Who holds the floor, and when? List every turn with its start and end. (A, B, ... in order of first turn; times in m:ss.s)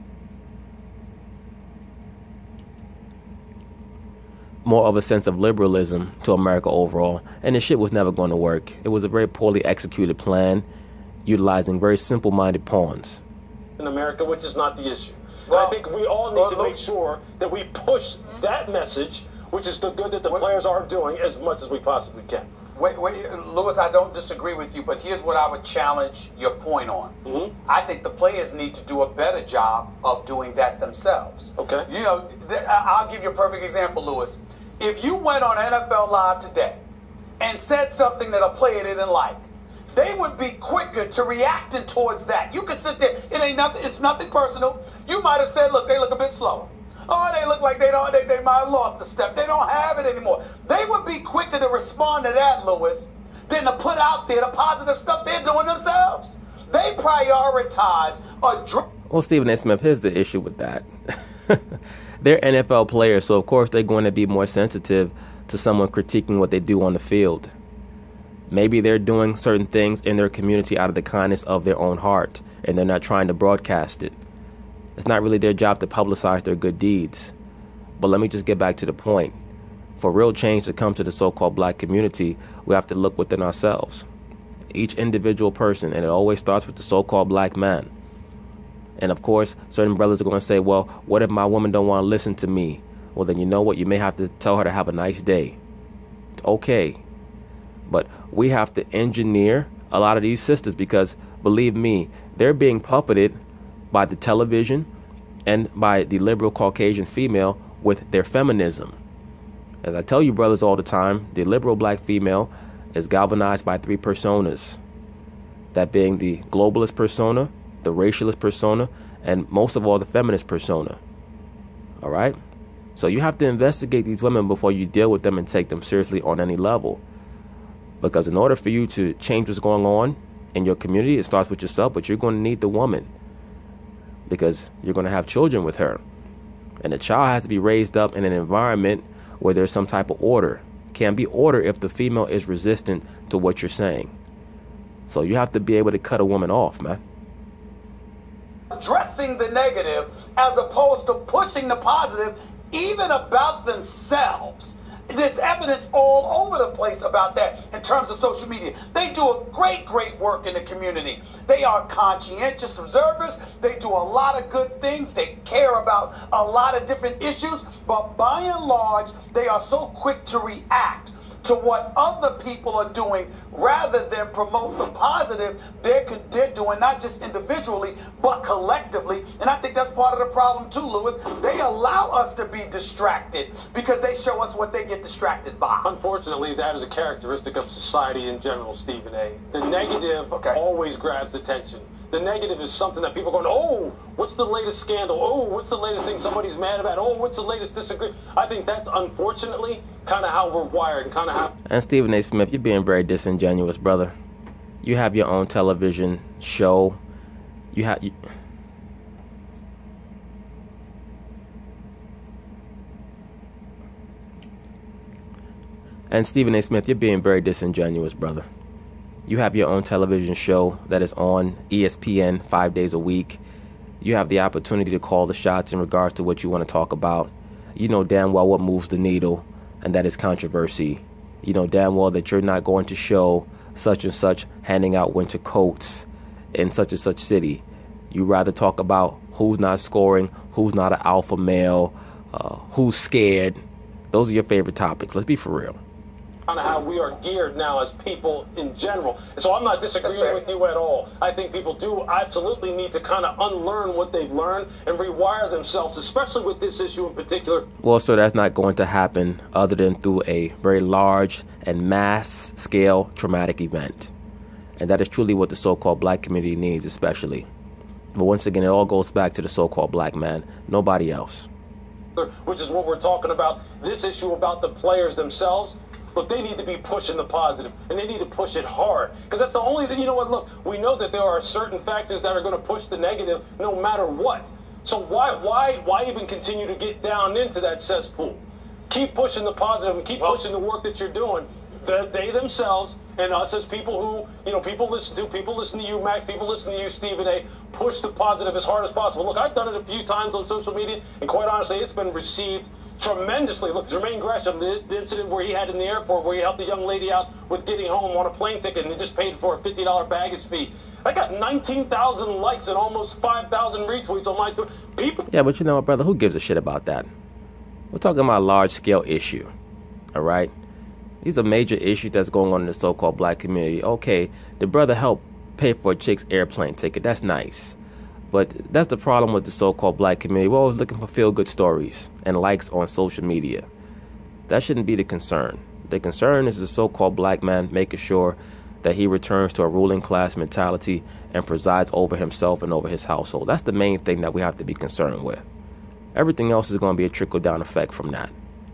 0:04.6-0:10.7 A
0:11.3-0:13.2 A
0:13.8-0:22.5 B
0:15.5-0:15.8 C
0:16.3-0:16.8 C
0:22.8-0:27.2 C
0:27.2-0:27.5 B
0:27.7-0:36.8 C
0:31.6-0:31.9 B
0:37.4-0:39.4 C
0:39.9-0:58.9 C
0:59.1-1:07.5 A
1:08.5-1:14.2 A
1:15.0-1:17.3 A
1:18.0-1:19.4 A
1:20.0-1:24.1 A
1:24.7-1:27.9 A
1:29.0-1:35.6 A
1:36.4-1:37.0 A
1:37.9-1:43.4 A
1:43.9-1:44.9 A
1:45.5-1:49.0 A
1:49.8-1:54.8 A
1:55.7-2:01.0 A
2:02.0-2:02.4 A
2:03.0-2:07.0 A
2:08.0-2:13.1 A
2:14.3-2:16.0 A
2:16.8-2:24.1 A
2:25.1-2:27.0 A
2:28.7-3:05.9 C
3:05.8-3:21.5 B
3:10.3-3:10.6 C
3:21.7-3:24.1 A
3:24.8-3:27.0 A
3:27.7-3:28.2 A
3:36.1-3:38.5 A
3:39.3-3:43.4 A
3:44.0-4:05.8 A
4:06.5-4:17.7 B
4:10.0-4:10.4 C
4:17.8-4:24.1 A
4:24.8-4:27.5 A
4:28.2-4:31.5 A
4:32.2-5:15.3 B
5:15.3-5:17.1 A
5:17.9-5:19.5 A
5:20.1-5:20.5 A
5:21.2-5:27.8 A
5:28.3-5:33.7 A
5:34.5-5:45.5 A
5:46.2-5:48.3 A